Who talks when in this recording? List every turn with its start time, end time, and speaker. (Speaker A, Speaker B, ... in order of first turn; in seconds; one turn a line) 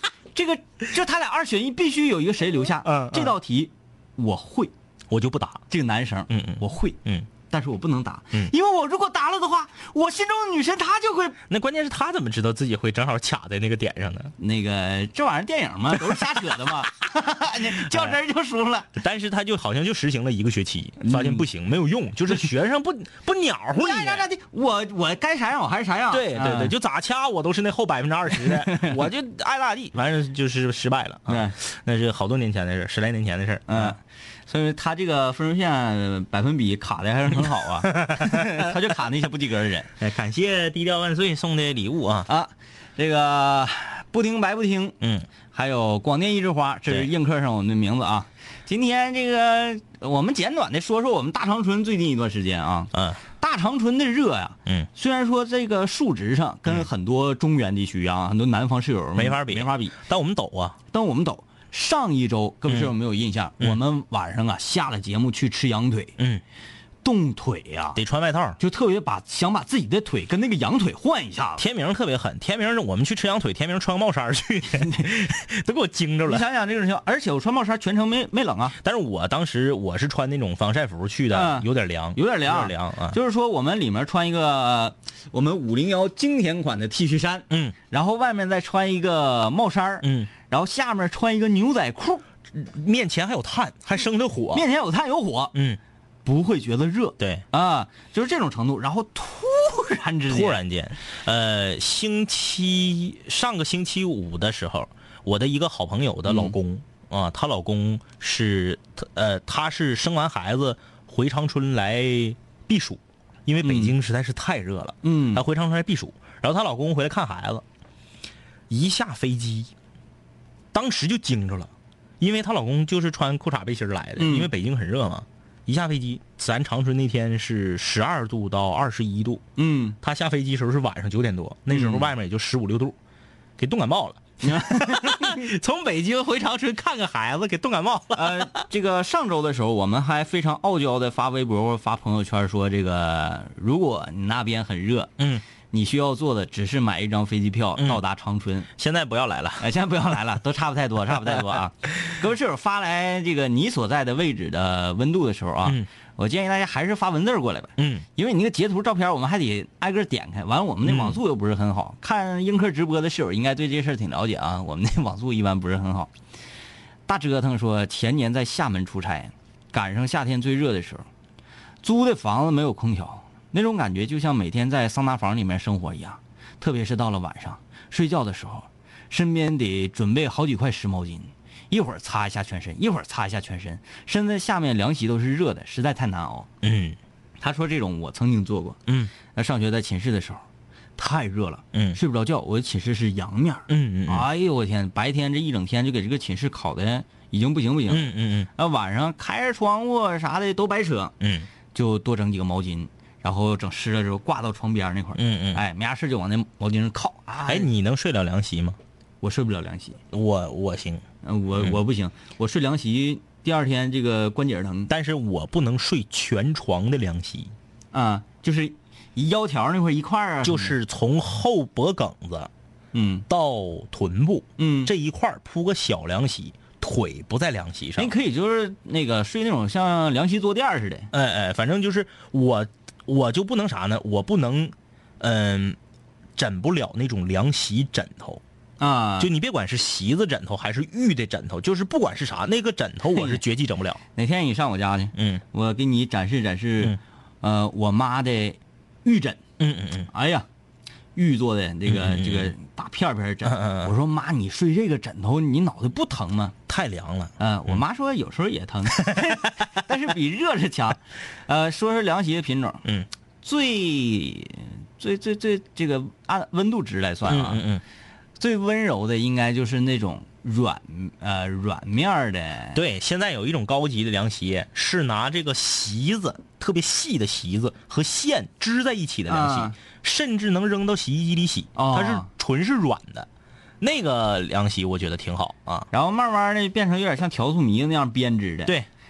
Speaker A: 0.3-4.7
Speaker B: 2.8-3.4
Speaker B: 5.1-5.6
Speaker A: 5.7-7.0
Speaker B: 6.3-7.3
Speaker A: 7.5-11.4
Speaker B: 11.5-14.3
Speaker A: 14.4-18.9
Speaker B: 17.9-18.2
Speaker B: 18.9-24.2
Speaker A: 21.1-21.4
Speaker A: 23.8-26.7
Speaker B: 26.1-34.0
Speaker A: 28.4-29.0
Speaker A: 31.3-31.6
Speaker A: 33.7-39.9
Speaker B: 37.8-38.7
Speaker B: 40.0-42.3
Speaker A: 42.3-45.0
Speaker B: 45.0-45.3
Speaker A: 45.5-60.0
Speaker B: 52.9-53.2
Speaker B: 59.2-60.8
Speaker A: 60.9-66.2
Speaker B: 62.7-62.9
Speaker B: 66.2-66.4
Speaker A: 67.0-68.0
Speaker B: 68.0-68.6
Speaker A: 68.6-71.6
Speaker B: 71.6-76.4
Speaker A: 74.8-75.1
Speaker A: 76.3-78.8
Speaker B: 78.8-83.2
Speaker A: 81.3-92.2
Speaker B: 87.5-87.8
Speaker B: 90.0-90.3
Speaker B: 92.5-94.7
Speaker A: 94.5-95.5
Speaker B: 95.5-95.8
Speaker A: 96.2-100.6
Speaker B: 97.2-97.5
Speaker B: 100.3-117.6
Speaker A: 106.3-106.6
Speaker A: 113.6-113.9
Speaker A: 115.0-115.4
Speaker B: 118.7-119.7
Speaker B: 120.7-129.4
Speaker A: 124.2-124.5
Speaker A: 129.6-130.0
Speaker B: 130.0-133.0
Speaker A: 131.7-132.1
Speaker B: 133.6-138.6
Speaker A: 134.4-135.5
Speaker A: 138.2-145.1
Speaker B: 145.2-145.4
Speaker A: 145.7-148.7
Speaker B: 148.8-149.7
Speaker A: 149.6-166.1
Speaker B: 157.8-158.1
Speaker B: 160.8-161.2
Speaker A: 167.1-171.1
Speaker A: 171.8-186.5
Speaker B: 186.6-187.0
Speaker A: 187.4-188.8
Speaker B: 188.9-189.1
Speaker A: 189.3-190.4
Speaker A: 191.0-201.1
Speaker B: 191.7-192.0
Speaker B: 193.7-194.3
Speaker B: 197.9-198.5
Speaker B: 201.2-201.5
Speaker A: 201.7-207.7
Speaker B: 205.2-205.6
Speaker B: 207.5-208.8
Speaker A: 209.2-210.0
Speaker B: 210.1-211.0
Speaker A: 211.2-214.9
Speaker B: 214.9-217.5
Speaker A: 217.9-220.8
Speaker B: 220.4-222.5
Speaker A: 222.9-223.3
Speaker B: 223.3-228.1
Speaker A: 224.6-224.9
Speaker A: 228.0-231.1
Speaker B: 231.1-235.8
Speaker B: 236.4-238.4
Speaker A: 238.8-239.3
Speaker B: 239.2-244.0
Speaker A: 243.2-243.4
Speaker A: 244.2-249.4
Speaker B: 245.2-245.4
Speaker B: 249.6-250.1
Speaker A: 250.1-250.5
Speaker A: 251.2-256.6
Speaker B: 251.9-252.5
Speaker B: 253.4-253.9
Speaker B: 256.7-257.8
Speaker A: 257.4-262.8
Speaker B: 259.1-259.4
Speaker A: 263.4-267.6
Speaker B: 267.3-267.8
Speaker A: 268.4-272.8
Speaker B: 272.8-283.3
Speaker A: 279.3-279.8
Speaker A: 281.8-282.3
Speaker B: 283.8-285.9
Speaker A: 285.9-288.8